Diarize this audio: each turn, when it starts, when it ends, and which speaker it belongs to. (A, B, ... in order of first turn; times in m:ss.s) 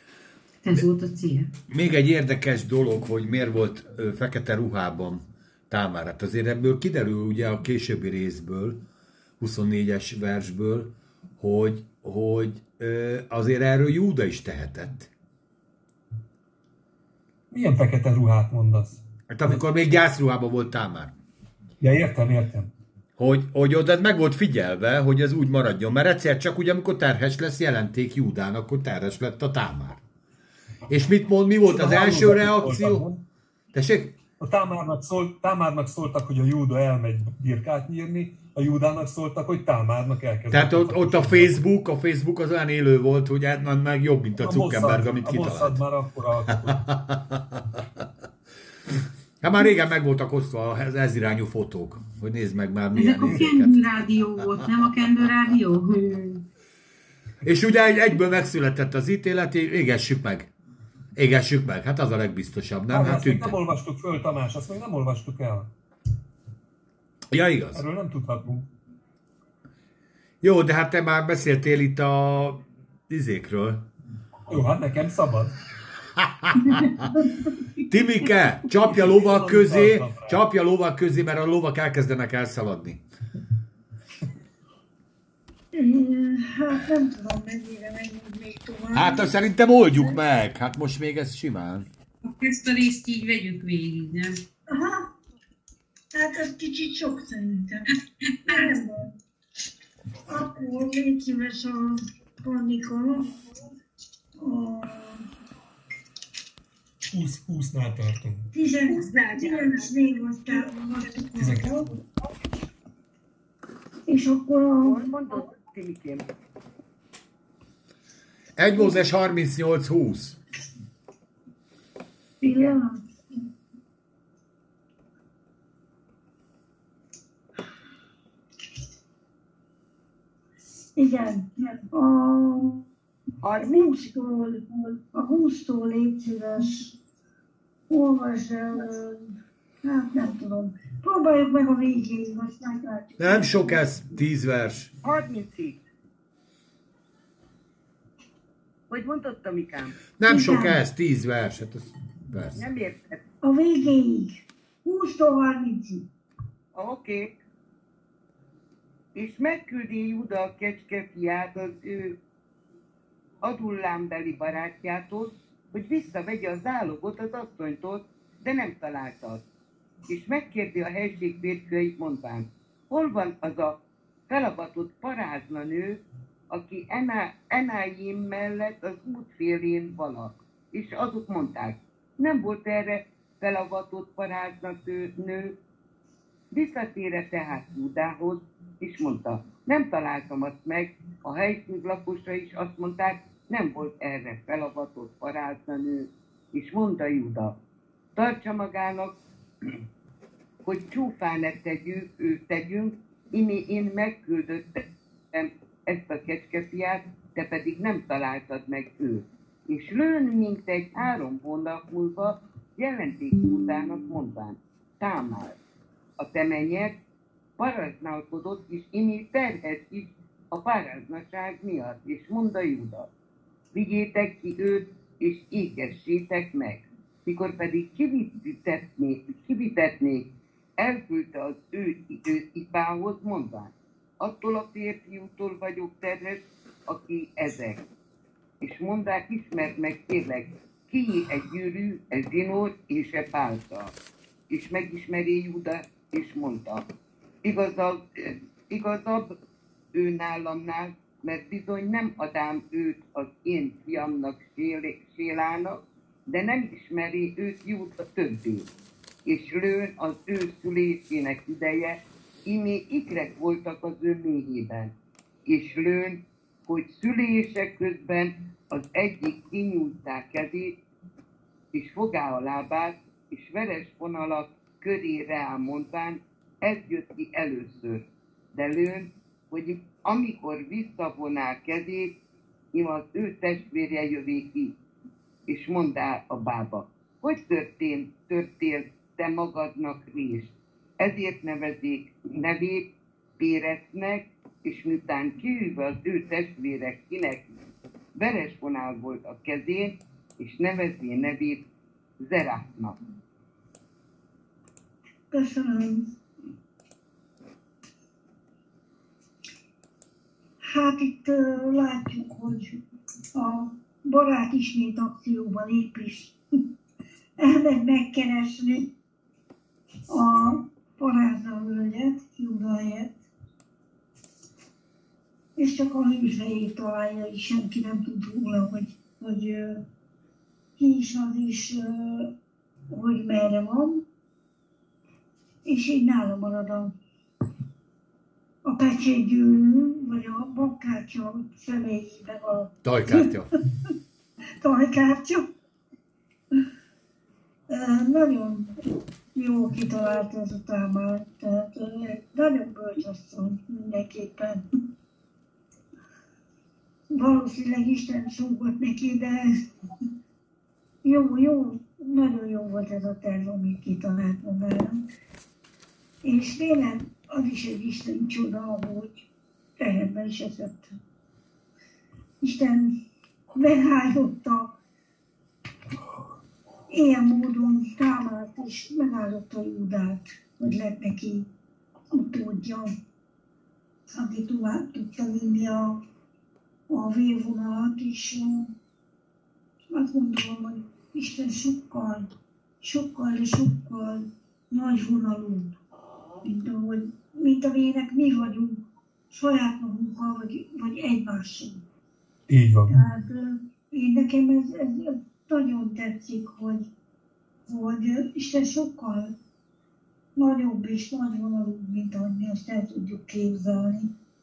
0:00.6-0:01.5 A
0:01.7-0:08.8 B
0:09.4-0:15.1 B
0:17.5-0:19.6 C
0:19.3-0:21.1 B
0:21.8-0:22.7 C
0:23.2-0:30.0 B
0:30.9-0:33.1 B
0:31.6-0:33.2 C
0:33.7-0:34.2 B
0:34.4-0:41.6 C
0:40.5-0:45.8 B
0:44.4-0:46.8 C
0:46.7-0:47.8 B
0:49.4-0:53.8 B
0:52.9-0:56.4 A
0:57.4-1:00.5 B
1:01.2-1:03.6 B
1:02.9-1:05.7 C
1:07.3-1:07.8 B
1:07.7-1:08.7 C
1:10.4-1:13.8 B
1:14.5-1:15.6 C
1:16.2-1:17.2 B
1:17.8-1:23.0 B
1:18.8-1:20.4 C
1:25.7-1:29.3 D
1:28.9-1:31.9 B
1:32.2-1:34.4 A
1:34.7-1:35.1 D
1:36.1-1:37.9 D
1:38.4-1:39.1 D
1:40.3-1:43.3 D
1:44.4-1:45.2 D
1:47.1-1:48.5 C
1:48.5-1:51.9 D
1:48.9-1:49.9 E
1:51.4-1:51.9 C
1:54.1-1:55.4 D
1:54.8-1:56.3 E
1:58.6-2:00.4 B
2:02.4-2:03.0 D
2:02.4-2:02.8 E
2:11.0-2:12.9 D
2:13.4-2:13.9 E
2:13.6-2:17.0 D
2:17.9-2:23.8 D
2:23.2-2:24.9 B
2:25.0-2:25.8 E
2:28.9-2:30.0 E
2:30.2-2:32.7 B
2:30.3-2:30.8 D
2:32.5-2:33.2 E
2:33.4-2:36.1 D
2:36.8-2:37.3 E
2:39.2-2:42.2 E
2:43.4-2:49.4 E
2:50.1-2:53.8 E
2:54.3-3:05.6 E
3:06.5-3:17.6 E
3:18.2-3:19.2 E
3:20.6-3:35.6 E
3:36.2-3:37.0 E
3:37.6-3:43.1 E
3:43.7-3:57.8 E
3:58.6-4:03.9 E
4:04.5-4:06.9 E
4:07.4-4:09.4 E
4:09.9-4:18.7 E
4:19.3-4:24.9 E
4:25.5-4:30.8 E
4:31.7-4:42.2 E
4:42.7-4:44.8 E
4:45.5-4:57.6 E
4:58.2-5:01.6 E
5:02.2-5:03.0 E
5:05.3-5:06.1 D
5:10.6-5:12.8 D
5:13.4-5:16.4 D
5:17.4-5:18.9 D
5:20.1-5:23.2 D
5:25.6-5:29.8 D
5:30.8-5:32.3 D
5:32.9-5:34.0 D
5:35.7-5:36.9 D
5:38.6-5:43.3 D
5:42.8-5:43.5 B
5:44.6-5:45.5 D
5:47.7-5:48.8 D
5:49.3-5:54.6 D
5:57.1-5:59.7 D
6:01.0-6:05.0 D
6:06.2-6:09.3 D
6:09.8-6:11.0 D
6:12.4-6:13.0 D
6:13.6-6:14.8 D
6:16.9-6:21.5 D
6:22.1-6:23.0 D
6:24.1-6:26.1 D
6:26.9-6:28.7 D
6:29.9-6:32.3 D
6:32.8-6:35.8 D
6:36.4-6:41.8 D
6:42.5-6:43.0 C
6:42.9-6:46.9 D
6:47.7-6:49.4 D
6:50.4-6:54.1 D